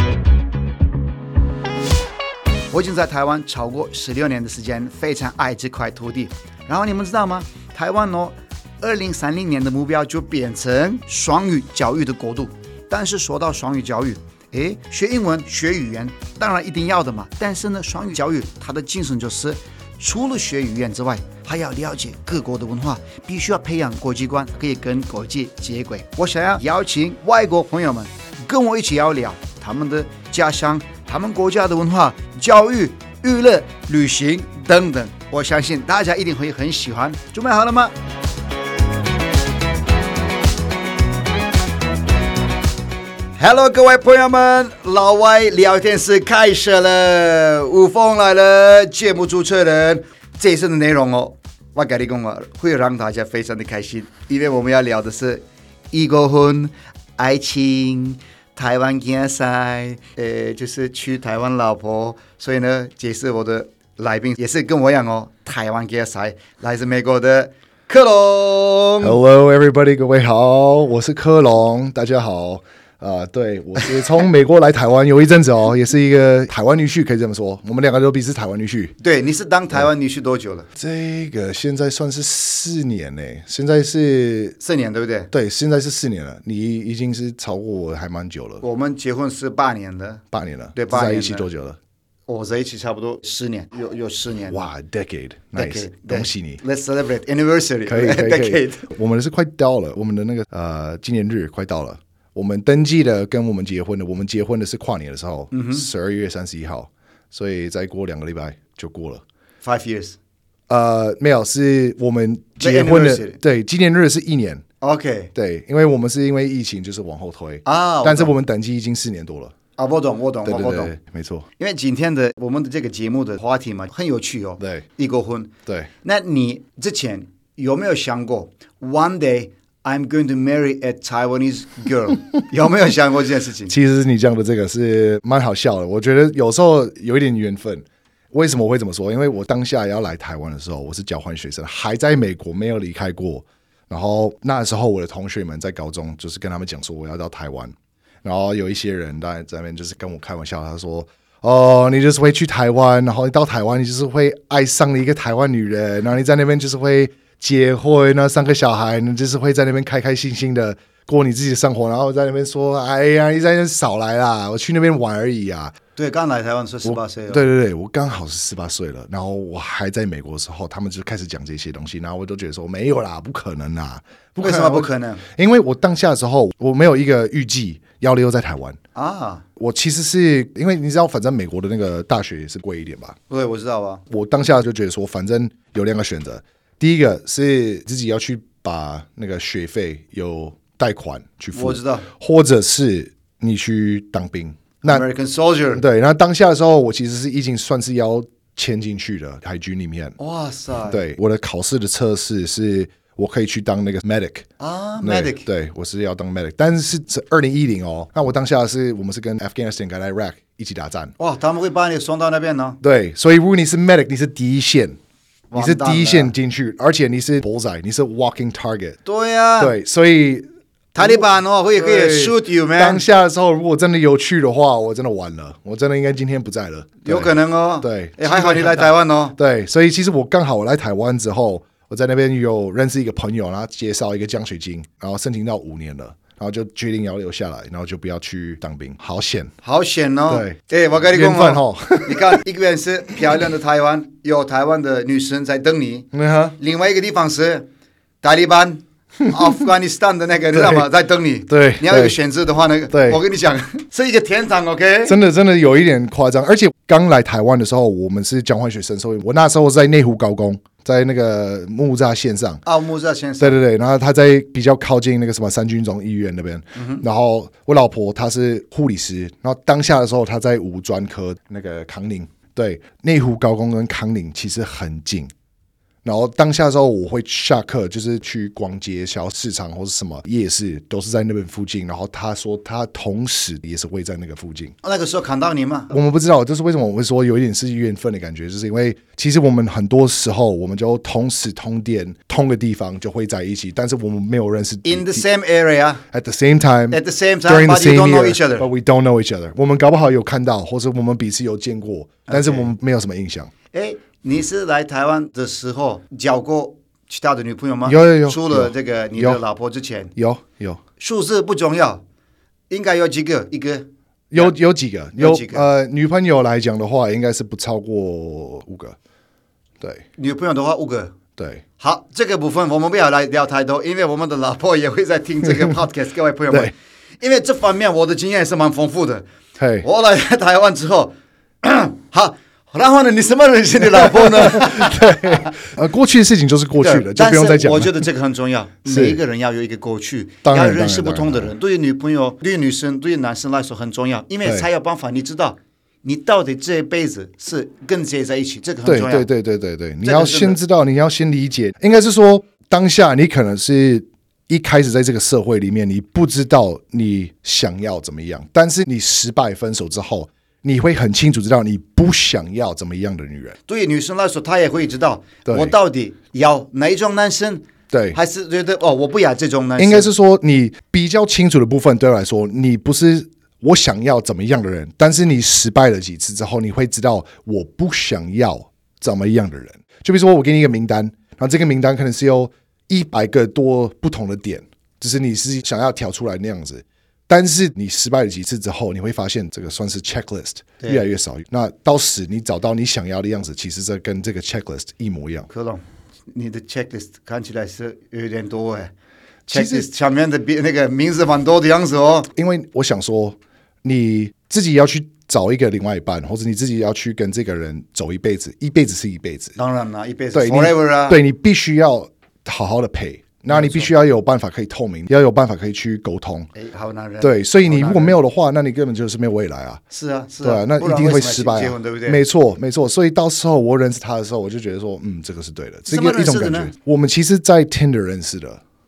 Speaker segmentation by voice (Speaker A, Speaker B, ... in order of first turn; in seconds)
Speaker A: 2.7-37.9, 43.4-69.2, 79.0-80.7, 84.6-85.3, 88.6-90.2, 90.7-91.5, 92.3-94.6, 95.5-98.9, 105.5-105.9, 109.6-110.2, 112.6-113.4, 114.8-115.3, 117.6-118.3, 119.8-120.9, 121.6-133.7, 165.9-167.4, 174.4-175.2, 178.9-179.4, 183.3-184.0, 191.5-192.1, 194.8-195.8, 200.2-201.0, 204.6-205.4, 211.2-212.8, 215.5-216.3, 219.0-219.7, 220.9-223.0, 227.0-229.3, 239.6-247.7, 248.2-255.2, 262.6-263.6, 266.7-267.0, 284.8-285.9, 294.8-296.0, 296.9-298.7, 302.3-302.7, 303.7-310.1, 311.0-312.0, 312.7-314.5, 315.1-315.6, 320.2-321.1, 321.8-329.2, 329.8-335.5, 336.8-349.3, 350.0-350.6, 363.7-370.1, 390.8-391.0, 395.5-398.9, 399.5-402.3, 409.6-411.2, 413.5-413.9, 416.5-418.2, 419.9-422.2, 425.9-426.7
Speaker B: 69.0-78.9, 80.8-84.5, 85.3-88.6, 90.3-91.8, 94.5-96.6, 97.8-109.2, 110.7-114.6, 115.3-119.5, 120.4-121.5, 124.6-124.8, 133.7-165.7, 166.8-178.8, 179.6-183.2, 184.1-195.1, 195.7-200.1, 200.9-204.5, 205.0-211.1, 212.8-215.0, 215.5-219.0, 219.6-239.5, 240.3-240.6, 241.1-242.4, 246.1-246.6, 249.2-249.6, 250.5-250.9, 251.5-252.2, 252.9-253.2, 255.0-262.6, 263.4-275.3, 276.0-284.7, 285.9-295.2, 296.1-303.5, 307.8-309.4, 310.1-310.8, 314.3-319.0, 321.4-321.6, 329.6-329.9, 333.8-338.1, 338.8-339.2, 340.4-341.5, 348.8-363.6, 365.4-365.7, 367.9-368.2, 369.8-395.5, 399.5-399.9, 402.3-409.6, 410.3-416.5, 417.2-419.8, 420.4-428.6